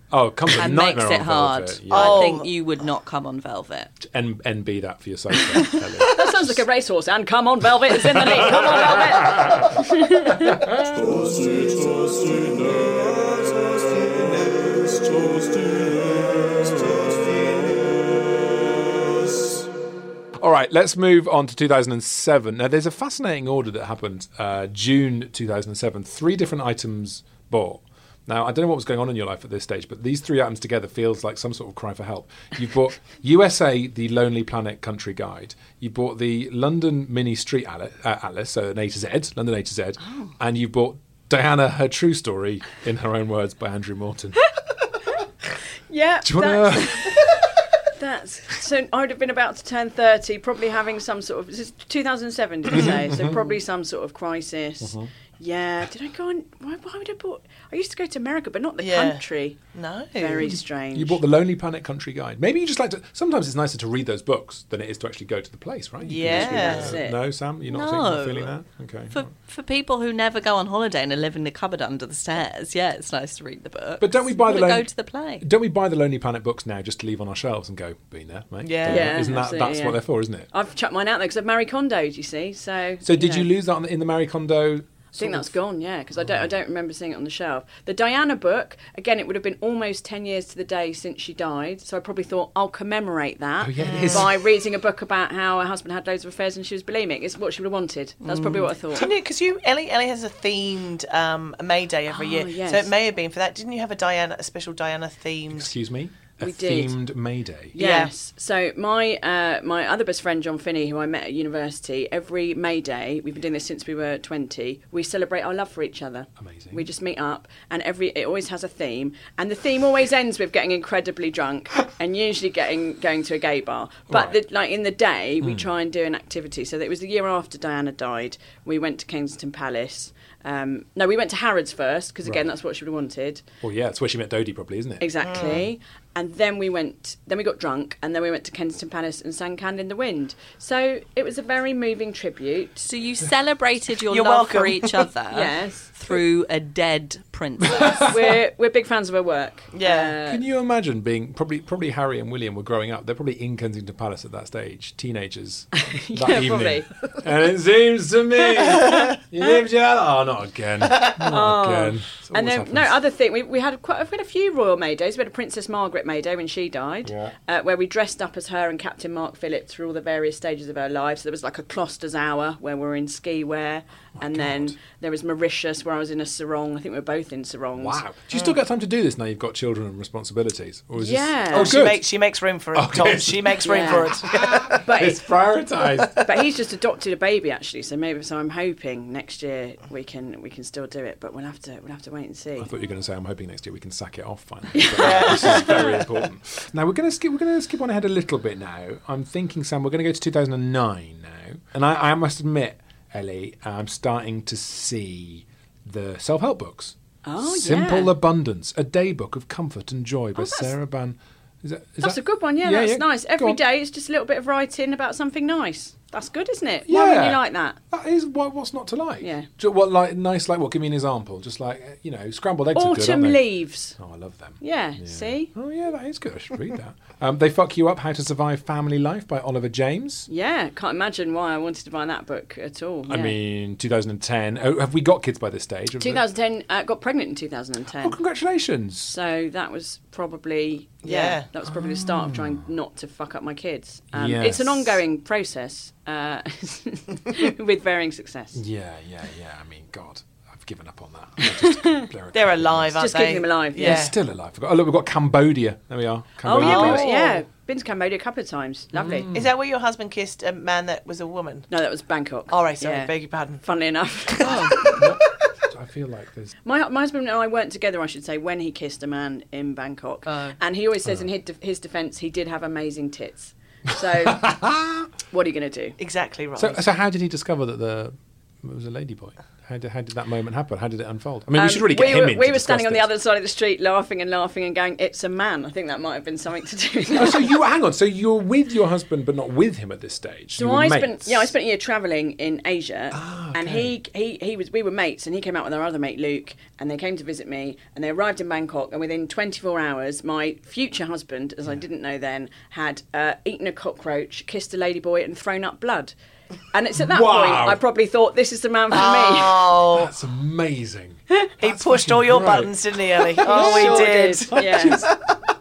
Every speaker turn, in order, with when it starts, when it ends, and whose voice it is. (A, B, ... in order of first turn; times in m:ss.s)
0:00.1-0:02.3 A
0:00.5-0:03.9 B
0:01.9-0:02.5 C
0:04.0-0:06.6 A
0:06.0-0:10.6 D
0:07.8-0:09.8 A
0:10.3-0:11.6 A
0:20.4-0:44.5 A
0:45.9-0:47.2 D
0:46.2-0:47.5 A
0:47.9-0:59.6 D
0:52.7-0:53.4 A
0:54.8-0:55.1 A
0:58.8-1:00.6 C
1:00.2-1:01.2 D
1:00.5-1:09.3 A
1:06.0-1:07.0 C
1:06.2-1:07.2 D
1:07.7-1:08.6 B
1:09.1-1:15.4 B
1:14.0-1:14.9 A
1:15.4-1:20.5 A
1:18.6-1:19.2 C
1:18.9-1:23.5 D
1:23.0-1:25.6 A
1:25.1-1:39.1 D
1:26.2-1:26.5 A
1:33.6-1:34.3 A
1:33.8-1:34.3 C
1:38.2-1:38.7 B
1:38.9-1:45.7 C
1:42.1-1:42.9 D
1:45.5-1:47.8 A
1:46.4-1:47.0 D
1:47.7-2:13.4 D
1:47.8-1:48.1 C
1:56.4-1:56.9 A
2:04.1-2:04.4 A
2:05.4-2:05.7 A
2:12.2-2:12.5 A
2:13.6-2:15.6 A
2:15.0-2:22.8 D
2:15.2-2:15.7 C
2:22.8-2:28.1 B
2:24.1-2:25.0 C
2:25.3-2:26.1 D
2:27.7-2:28.2 A
2:28.0-2:30.4 D
2:29.7-2:30.1 C
2:30.2-2:43.0 A
2:35.7-2:36.9 D
2:41.2-2:58.0 D
2:47.0-2:47.3 A
2:54.2-2:54.8 A
2:57.8-3:02.1 A
3:01.0-3:01.8 D
3:01.5-3:04.8 C
3:02.7-3:06.2 A
3:03.6-3:04.1 D
3:04.8-3:05.2 D
3:06.2-3:12.7 D
3:12.6-3:33.6 A
3:14.7-3:15.9 D
3:15.0-3:16.1 C
3:27.2-3:28.1 D
3:30.4-3:30.7 D
3:32.0-3:37.8 D
3:36.9-3:50.3 A
3:39.2-3:39.5 D
3:42.7-3:44.0 D
3:44.6-3:45.5 D
3:50.3-3:53.4 D
3:53.0-3:56.2 A
3:56.0-3:58.2 D
3:58.0-3:59.2 A
3:59.1-4:08.6 D
4:01.0-4:01.5 C
4:01.6-4:02.7 A
4:04.1-4:05.0 A
4:08.5-4:13.0 A
4:11.4-4:12.1 D
4:12.3-4:14.1 C
4:13.0-4:14.1 D
4:13.8-4:17.1 A
4:16.4-4:19.3 D
4:16.5-4:17.4 C
4:18.9-4:19.5 A
4:19.3-4:21.7 C
4:21.7-4:24.8 D
4:22.5-4:23.6 C
4:24.4-4:25.1 C
4:24.4-4:24.7 B
4:24.9-4:26.5 A
4:26.6-4:34.5 D
4:34.1-4:35.1 A
4:35.3-4:36.0 D
4:36.0-4:36.8 C
4:36.6-4:43.1 A
4:41.5-4:47.6 D
4:47.1-4:51.5 A
4:50.6-5:06.1 D
4:53.1-4:53.9 A
5:06.7-5:09.8 D
5:06.9-5:07.8 A
5:08.9-5:10.1 C
5:09.9-5:15.1 A
5:11.6-5:15.2 C
5:13.4-5:15.0 D